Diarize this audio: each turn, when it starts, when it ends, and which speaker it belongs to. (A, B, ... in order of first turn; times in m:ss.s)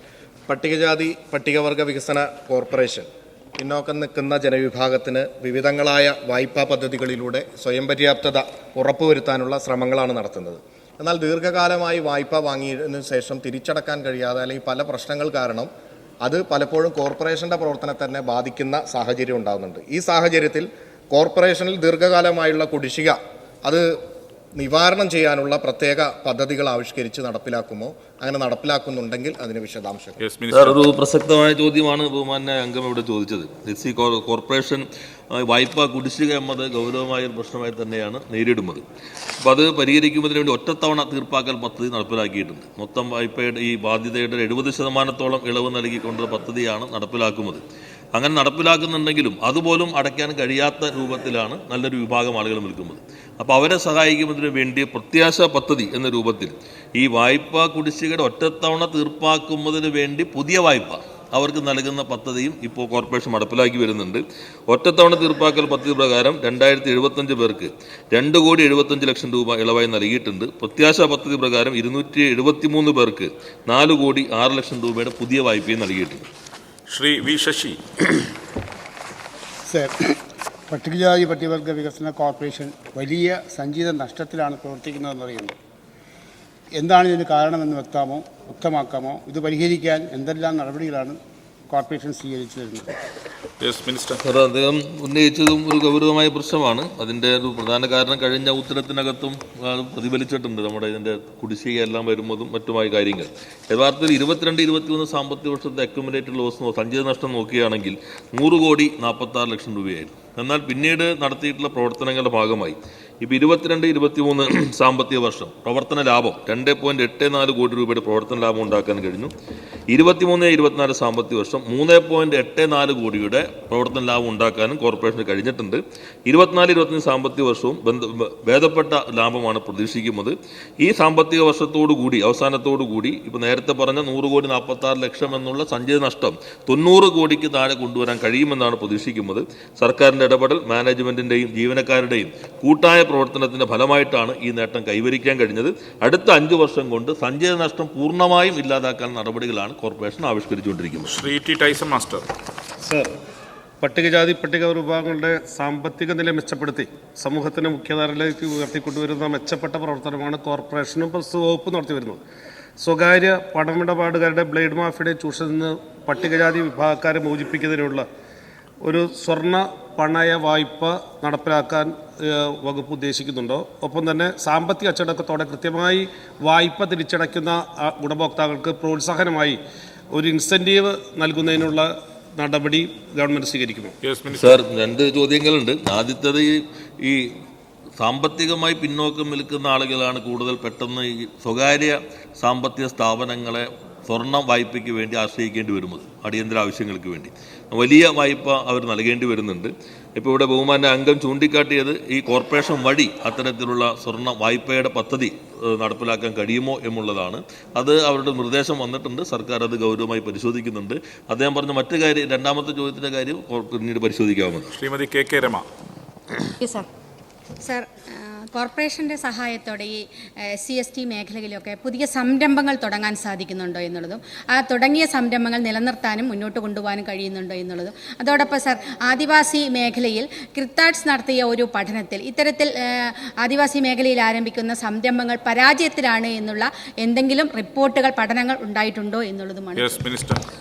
0:00.5-0:15.7 A
0:16.2-0:23.9 A
0:24.6-0:30.2 A
0:30.2-0:30.8 B
0:30.5-0:38.8 C
0:39.4-0:47.6 C
0:48.2-1:16.3 C
1:16.9-1:18.2 B
1:19.7-1:25.6 D
1:26.7-1:32.9 D
1:33.6-1:34.2 B
1:34.2-1:59.3 C
1:59.9-2:31.1 C
2:31.1-2:32.3 B
2:32.8-2:33.2 E
2:33.8-2:42.2 E
2:42.8-2:48.1 E
2:48.8-2:59.6 E
3:00.1-3:04.0 E
3:04.0-3:04.6 B
3:04.4-3:07.3 C
3:08.0-3:34.8 C
3:34.8-3:35.7 B
3:37.6-4:00.0 F
3:59.8-4:00.4 B